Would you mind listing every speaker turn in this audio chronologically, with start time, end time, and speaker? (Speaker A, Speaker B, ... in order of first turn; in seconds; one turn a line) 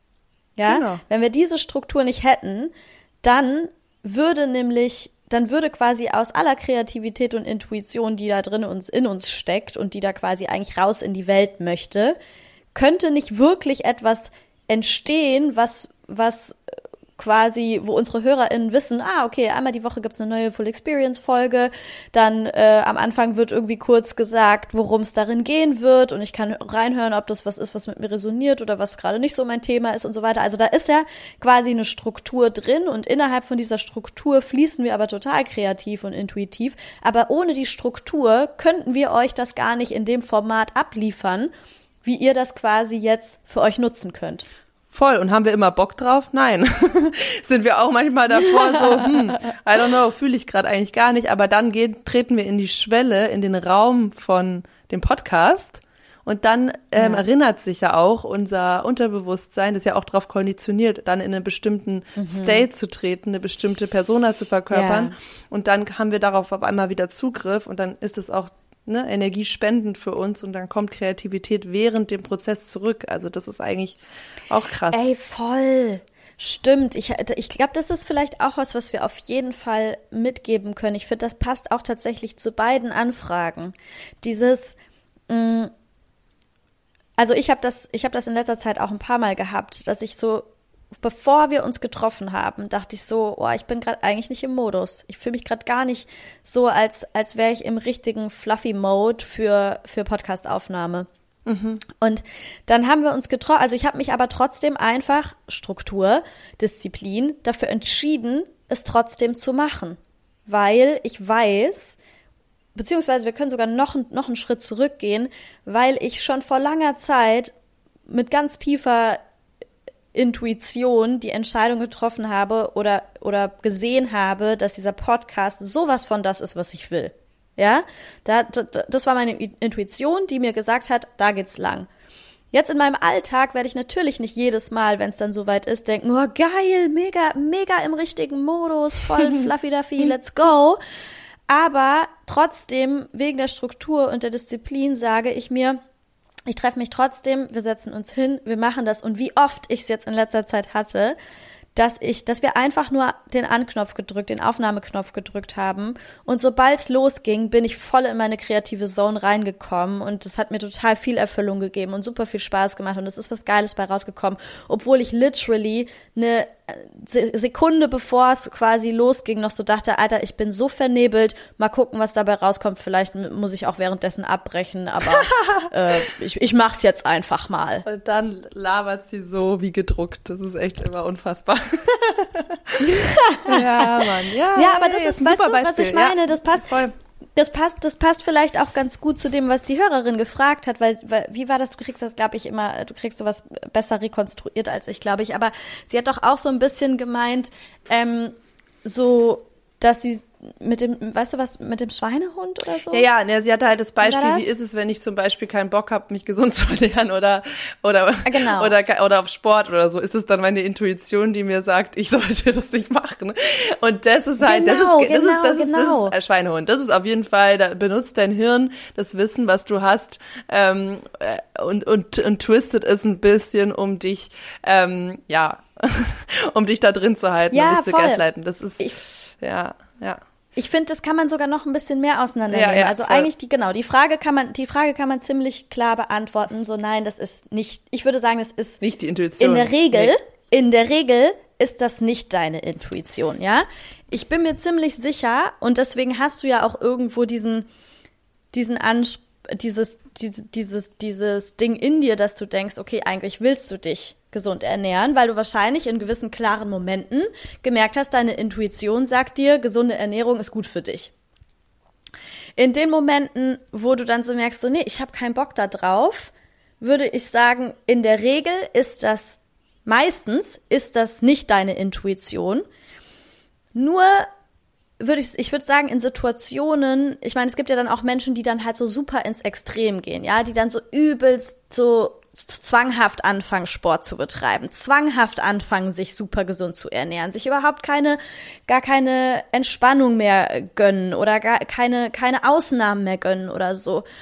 Speaker A: 0.6-2.7
Speaker B: 0.6-1.0
Speaker A: 3.2-12.2
Speaker A: 12.7-16.6
Speaker A: 17.2-41.5
Speaker A: 42.0-44.4
Speaker B: 44.9-75.0
Speaker A: 57.0-57.2
Speaker A: 62.1-62.6
Speaker A: 64.7-65.1
Speaker A: 74.9-84.8
Speaker A: 85.3-85.7
Speaker A: 87.2-90.5
Speaker A: 91.0-101.1
Speaker B: 101.5-101.8
Speaker A: 101.9-112.0
Speaker A: 112.7-117.5
Speaker A: 118.1-119.2
Speaker A: 120.1-131.9
Speaker A: 132.5-140.8
Speaker A: 141.5-145.8
Speaker A: 146.5-151.2
Speaker A: 151.7-177.8
Speaker B: 175.3-175.7
Speaker B: 177.8-186.9
Speaker A: 182.8-184.0
Speaker A: 184.5-186.7
Speaker A: 187.3-203.1
Speaker B: 202.9-228.9
Speaker A: 204.0-204.5
Speaker A: 208.2-208.7
Speaker A: 214.4-216.1
Speaker A: 227.5-228.2
Speaker B: 229.4-230.2
Speaker A: 230.6-238.8
Speaker B: 232.5-233.3
Speaker B: 238.8-240.1
Speaker A: 239.4-247.7
Speaker A: 248.5-261.1
Speaker A: 262.6-272.6
Speaker A: 273.7-274.3
Speaker A: 275.0-294.0